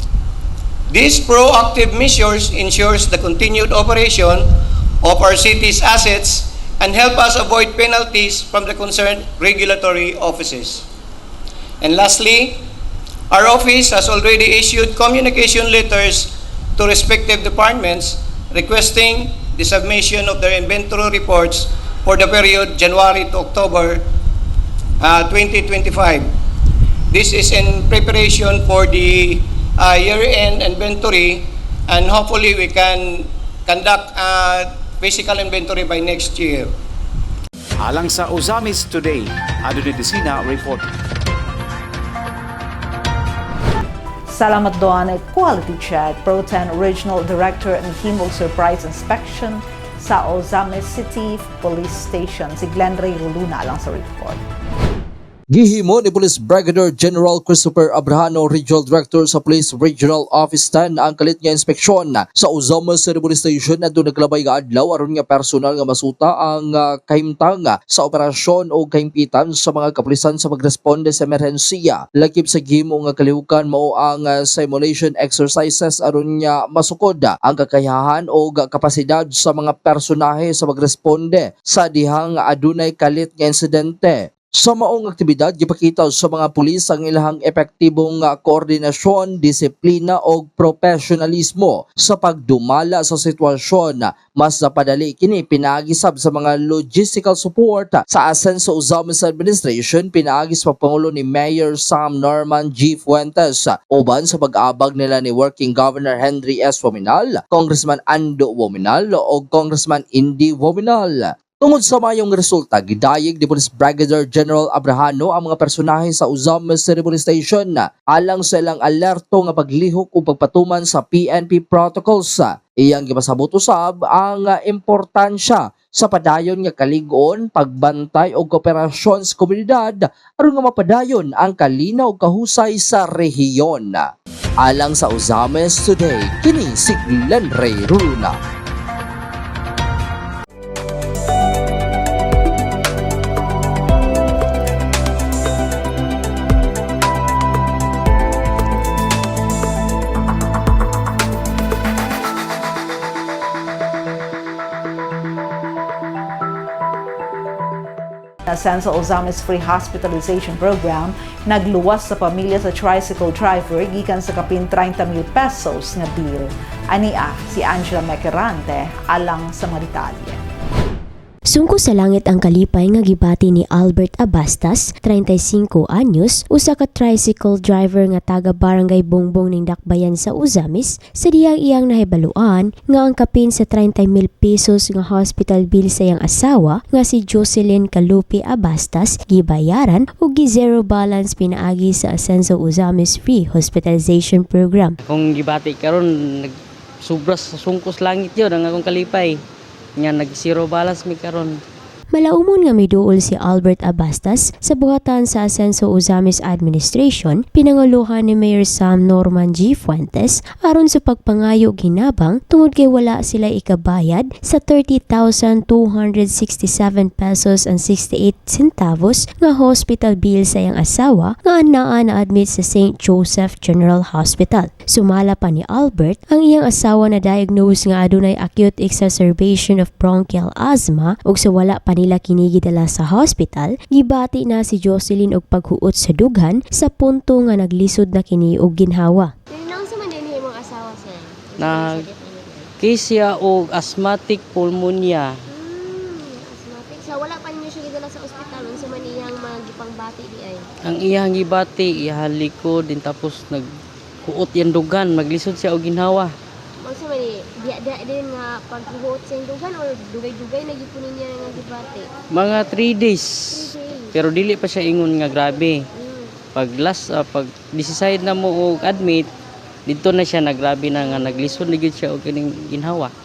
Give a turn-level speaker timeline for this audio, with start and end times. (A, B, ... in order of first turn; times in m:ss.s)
0:00.9-0:10.9 A
0:11.8-0:12.6 A
0:13.3-0:24.0 A
0:25.0-0:26.3 A
0:27.1-0:36.7 A
0:37.8-0:40.9 B
0:44.3-0:54.4 C
0:55.5-2:14.1 D
2:14.6-2:18.4 D
2:38.4-2:50.4 C
2:51.5-3:15.0 E
3:15.0-3:19.4 F
3:20.0-3:21.6 F
3:22.1-3:59.3 E
3:59.5-4:02.7 G
4:01.6-4:02.0 F
4:02.8-4:05.3 F
4:05.5-4:10.6 G
4:10.8-4:13.7 F
4:14.2-4:16.3 F
4:16.8-4:22.1 G
4:22.3-4:25.8 F
4:23.5-4:24.1 G
4:25.9-4:26.3 G
4:26.5-4:29.3 F
4:29.9-4:33.1 F